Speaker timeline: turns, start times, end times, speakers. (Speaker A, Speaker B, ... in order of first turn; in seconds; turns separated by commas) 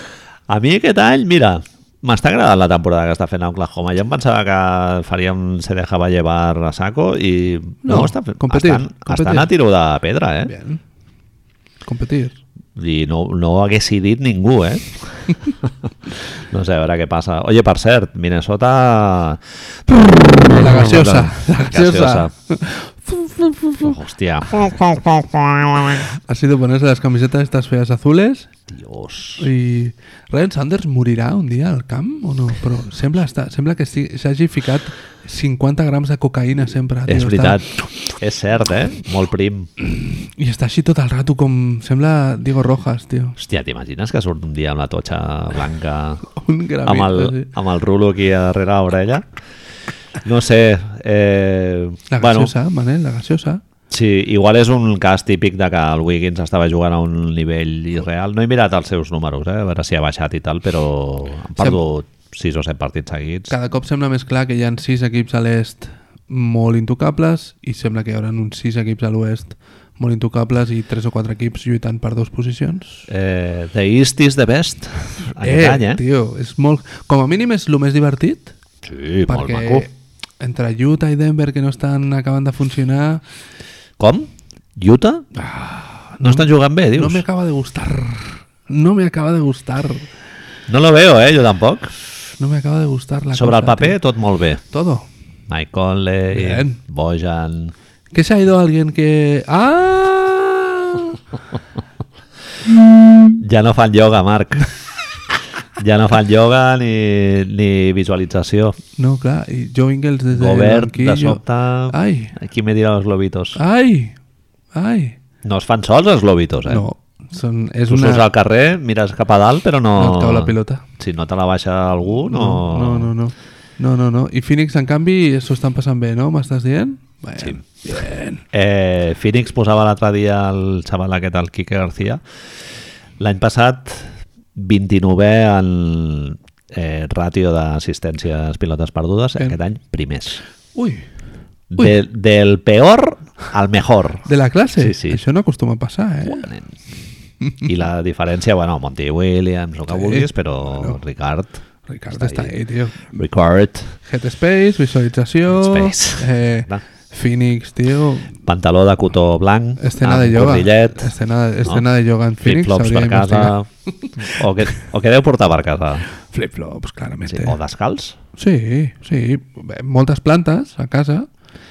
Speaker A: 0.5-10.5, Speaker B: 7.8-9.5, Speaker B: 10.4-10.8, Speaker B: 11.8-12.4, Speaker A: 12.8-22.3, Speaker B: 20.5-24.0, Speaker A: 23.8-26.1, Speaker B: 26.1-28.5, Speaker A: 28.7-29.5, Speaker B: 29.4-37.6, Speaker A: 37.1-39.7, Speaker B: 39.8-43.4, Speaker A: 43.4-46.3, Speaker B: 46.3-47.5, Speaker A: 46.8-49.3, Speaker A: 50.2-52.5, Speaker B: 52.1-53.6, Speaker A: 53.9-63.5, Speaker B: 63.5-73.1, Speaker A: 73.1-76.0, Speaker B: 75.4-78.5, Speaker A: 78.8-79.9, Speaker B: 79.3-83.2, Speaker A: 84.0-85.3, Speaker B: 85.3-90.1, Speaker A: 86.2-87.2, Speaker A: 90.7-91.9, Speaker B: 92.4-94.0, Speaker A: 93.3-94.6, Speaker B: 94.7-95.1, Speaker A: 95.5-97.7, Speaker B: 96.3-96.8, Speaker B: 98.1-101.2, Speaker A: 103.3-104.7, Speaker A: 105.8-108.8, Speaker B: 109.0-112.3, Speaker A: 110.3-113.6, Speaker B: 113.6-114.2, Speaker B: 114.7-115.2, Speaker A: 115.4-116.8, Speaker B: 116.7-118.3, Speaker A: 117.9-123.1, Speaker B: 120.0-120.8, Speaker B: 122.3-128.4, Speaker A: 128.5-132.2, Speaker A: 133.2-140.4, Speaker B: 140.8-141.0, Speaker A: 141.7-144.3, Speaker B: 144.3-146.5, Speaker A: 144.8-145.2, Speaker A: 146.2-146.8, Speaker A: 147.6-152.5, Speaker B: 149.9-151.0, Speaker B: 151.9-153.1, Speaker A: 153.1-154.0, Speaker B: 154.0-158.3, Speaker A: 155.5-156.8, Speaker A: 158.5-161.1, Speaker B: 159.8-164.1, Speaker A: 162.4-166.1, Speaker B: 166.3-167.6, Speaker A: 167.3-168.2, Speaker B: 168.4-171.3